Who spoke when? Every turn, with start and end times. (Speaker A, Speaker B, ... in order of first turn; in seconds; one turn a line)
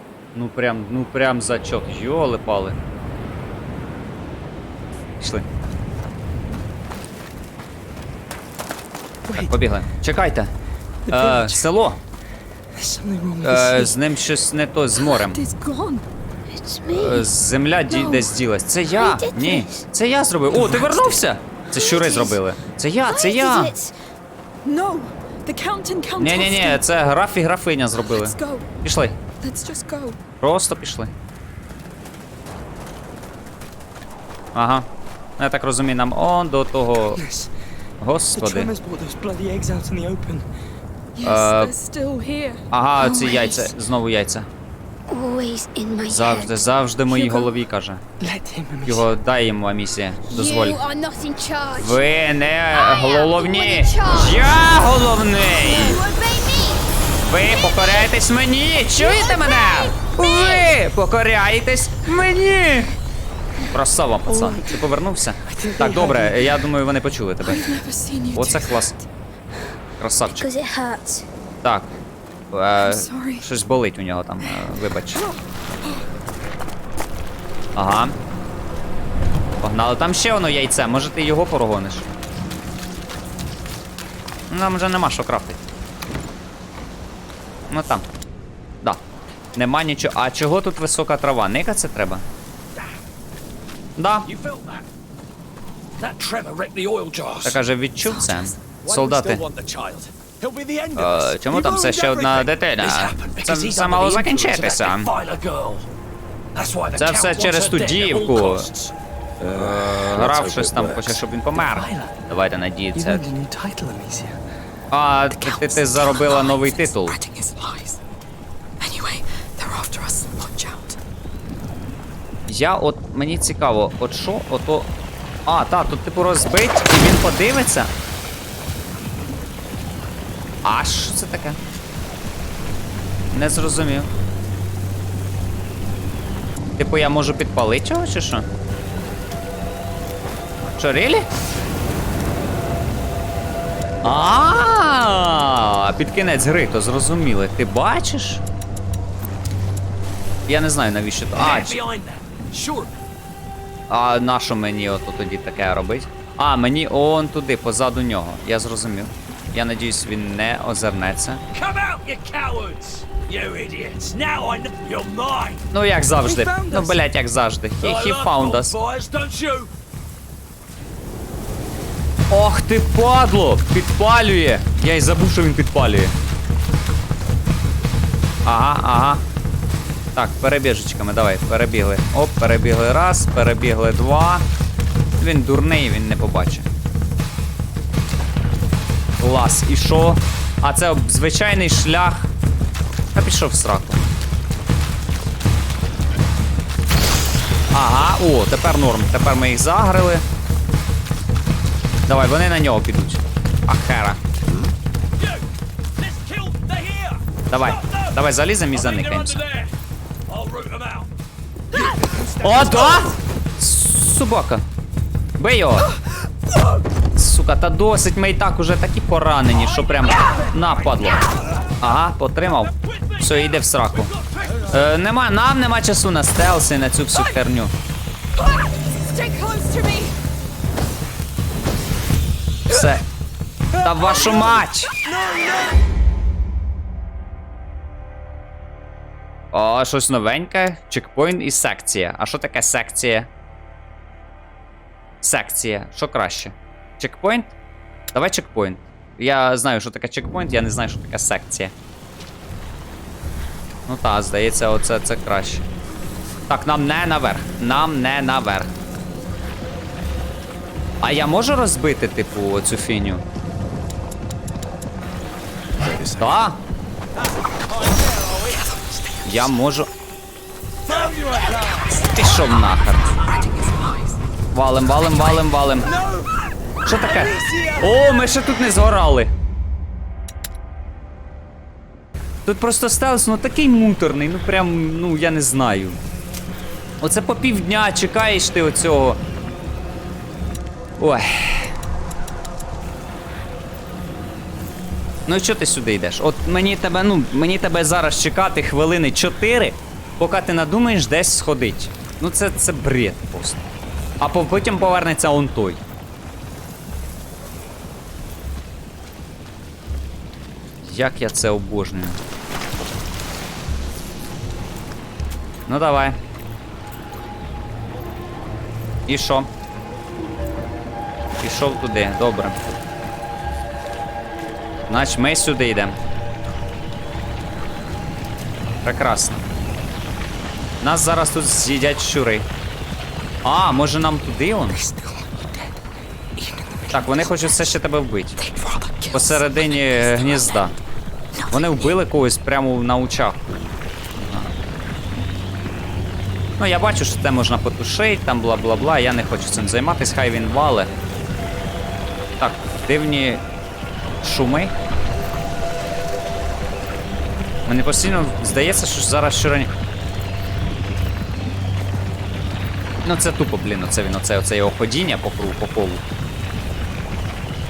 Speaker A: 0.3-2.8
Speaker A: 5.2-5.5
Speaker B: 9.2-9.6
Speaker A: 9.3-10.5
Speaker B: 11.1-11.7
Speaker A: 11.1-12.0
Speaker B: 12.7-14.0
Speaker A: 13.4-15.4
Speaker C: 15.1-16.0
Speaker D: 16.5-17.3
Speaker A: 16.9-23.7
Speaker C: 17.9-18.3
Speaker D: 18.9-19.8
Speaker B: 20.5-21.1
Speaker D: 21.9-22.3
Speaker D: 23.0-23.9
Speaker C: 24.6-26.8
Speaker A: 26.2-29.2
Speaker C: 28.0-28.7
Speaker C: 29.4-30.2
Speaker A: 30.4-31.1
Speaker A: 34.5-37.2
Speaker B: 37.0-37.5
Speaker A: 38.0-38.7
Speaker B: 38.3-40.5
Speaker C: 41.1-43.8
Speaker A: 41.2-41.7
Speaker A: 42.7-44.5
Speaker D: 45.1-46.5
Speaker A: 46.0-48.0
Speaker B: 48.2-49.1
Speaker A: 48.8-50.8
Speaker D: 50.3-52.0
Speaker A: 51.8-56.0
Speaker D: 52.7-54.5
Speaker D: 55.4-56.9
Speaker A: 57.2-62.9
Speaker D: 57.5-58.1
Speaker D: 59.0-60.8
Speaker A: 63.7-67.7
Speaker B: 64.2-64.8
Speaker B: 65.4-66.7
Speaker C: 67.4-69.0
Speaker A: 68.3-68.9
Speaker A: 70.0-70.5
Speaker D: 70.3-71.3
Speaker A: 71.6-72.0
Speaker A: 72.5-75.2
Speaker C: 72.8-73.5
Speaker C: 74.4-76.0
Speaker A: 77.8-78.2
Speaker A: 79.6-82.1
Speaker A: 84.5-85.6
Speaker A: 87.7-88.0
Speaker A: 89.5-92.2
Speaker A: 94.0-94.3
Speaker E: 94.2-94.9
Speaker E: 96.0-97.6
Speaker A: 97.4-99.4
Speaker C: 98.0-98.6
Speaker E: 98.8-105.9
Speaker A: 100.9-105.1
Speaker E: 106.5-111.2
Speaker A: 107.0-108.7
Speaker A: 109.5-113.3
Speaker B: 111.5-112.1
Speaker B: 112.9-114.4
Speaker A: 114.9-117.2
Speaker C: 115.3-118.0
Speaker C: 118.8-121.0
Speaker A: 122.5-124.9
Speaker A: 125.5-127.9
Speaker A: 130.6-131.6
Speaker A: 133.3-134.1
Speaker A: 136.8-138.5
Speaker A: 140.6-141.3
Speaker A: 144.0-148.4
Speaker A: 150.5-151.8
Speaker E: 151.3-152.9
Speaker A: 153.9-161.4
Speaker E: 161.5-165.6
Speaker A: 165.7-168.8
Speaker B: 166.2-167.0
Speaker E: 167.8-169.7
Speaker A: 172.3-176.1
Speaker A: 178.4-179.2
Speaker A: 180.2-184.4
Speaker A: 185.2-186.7
Speaker A: 189.2-192.3
Speaker A: 193.1-194.0
Speaker A: 197.7-200.2
Speaker A: 202.1-204.2
Speaker E: 205.2-205.4
Speaker E: 205.9-209.7
Speaker A: 207.5-209.4
Speaker E: 210.3-211.1
Speaker E: 211.7-213.1
Speaker A: 212.4-214.7
Speaker A: 215.4-215.9
Speaker A: 217.2-221.2
Speaker E: 219.7-221.7
Speaker A: 221.8-224.1
Speaker E: 222.6-225.0
Speaker A: 224.7-227.7
Speaker C: 227.1-227.4
Speaker C: 228.4-230.1
Speaker A: 232.7-233.1
Speaker A: 233.8-234.9
Speaker B: 233.8-235.8
Speaker A: 239.5-243.3
Speaker A: 245.2-247.6
Speaker A: 248.1-251.7
Speaker A: 253.9-255.7
Speaker A: 256.5-258.7
Speaker A: 261.0-263.2
Speaker E: 265.9-266.3
Speaker A: 266.2-266.6
Speaker E: 267.7-268.7
Speaker A: 269.2-269.9
Speaker E: 270.9-271.9
Speaker A: 271.9-273.1
Speaker C: 272.4-274.2
Speaker A: 274.5-275.9
Speaker A: 276.9-279.3
Speaker B: 277.0-278.2
Speaker A: 282.4-286.0
Speaker A: 287.0-289.2
Speaker A: 291.0-291.7
Speaker A: 295.2-305.8
Speaker A: 310.8-312.2
Speaker A: 315.7-316.2
Speaker A: 319.1-319.5
Speaker A: 321.4-322.6
Speaker A: 324.9-326.0
Speaker A: 328.8-329.4
Speaker A: 330.8-332.5
Speaker A: 333.4-334.8
Speaker B: 334.7-335.7
Speaker B: 336.4-337.5
Speaker A: 336.9-338.4
Speaker C: 338.4-340.7
Speaker A: 339.1-340.7
Speaker C: 341.4-341.9
Speaker A: 341.5-344.5
Speaker A: 346.6-350.9
Speaker A: 352.4-353.4
Speaker A: 354.2-354.7
Speaker A: 357.6-359.7
Speaker A: 363.0-366.0